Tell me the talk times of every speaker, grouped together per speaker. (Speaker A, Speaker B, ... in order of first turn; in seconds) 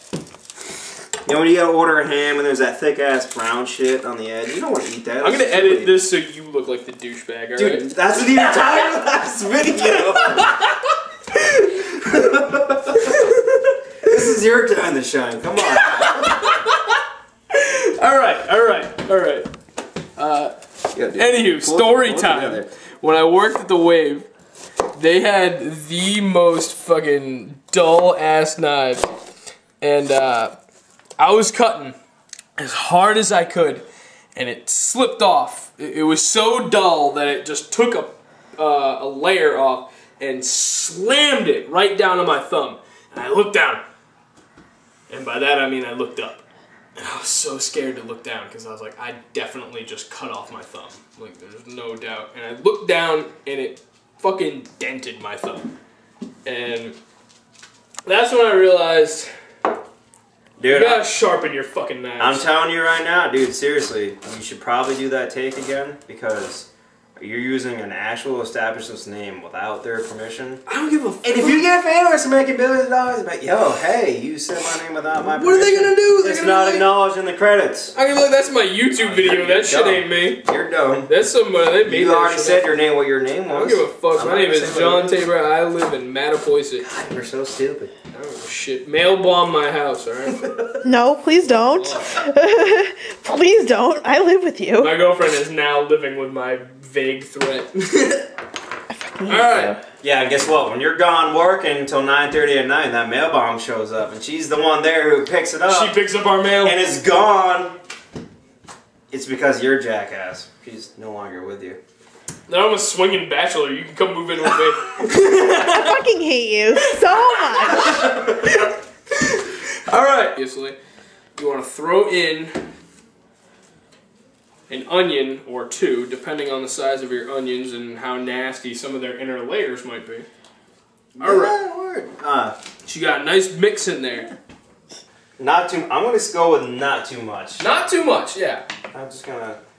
Speaker A: 1.2-6.0, 7.5-10.6, 11.7-13.1, 14.0-16.5, 20.9-22.7, 60.6-61.0, 62.2-70.6, 71.2-78.0, 79.0-81.1, 81.8-85.2, 86.8-87.9, 90.4-90.8, 100.0-106.0, 106.6-107.8, 109.1-111.8, 131.1-132.6, 135.4-137.7, 138.9-139.6
Speaker B: 5.2-7.9, 9.9-11.9, 12.9-13.8, 15.6-17.0, 17.5-19.5, 20.2-24.3, 24.9-29.1, 29.8-30.6, 31.2-31.9, 32.6-43.8, 45.1-46.4, 47.0-55.7, 56.4-57.0, 58.0-59.3, 60.7-62.4, 70.7-71.7, 75.3-76.9, 77.9-80.4, 81.1-82.9, 83.5-86.8, 88.1-90.5, 91.4-92.3, 94.8-98.3, 99.2-99.8, 105.7-106.8, 112.5-116.0, 116.8-120.8, 121.3-122.6, 124.7-130.3, 131.2-131.6, 132.8-134.3, 137.6-138.6
Speaker C: 90.8-94.9, 98.9-99.7, 115.5-118.1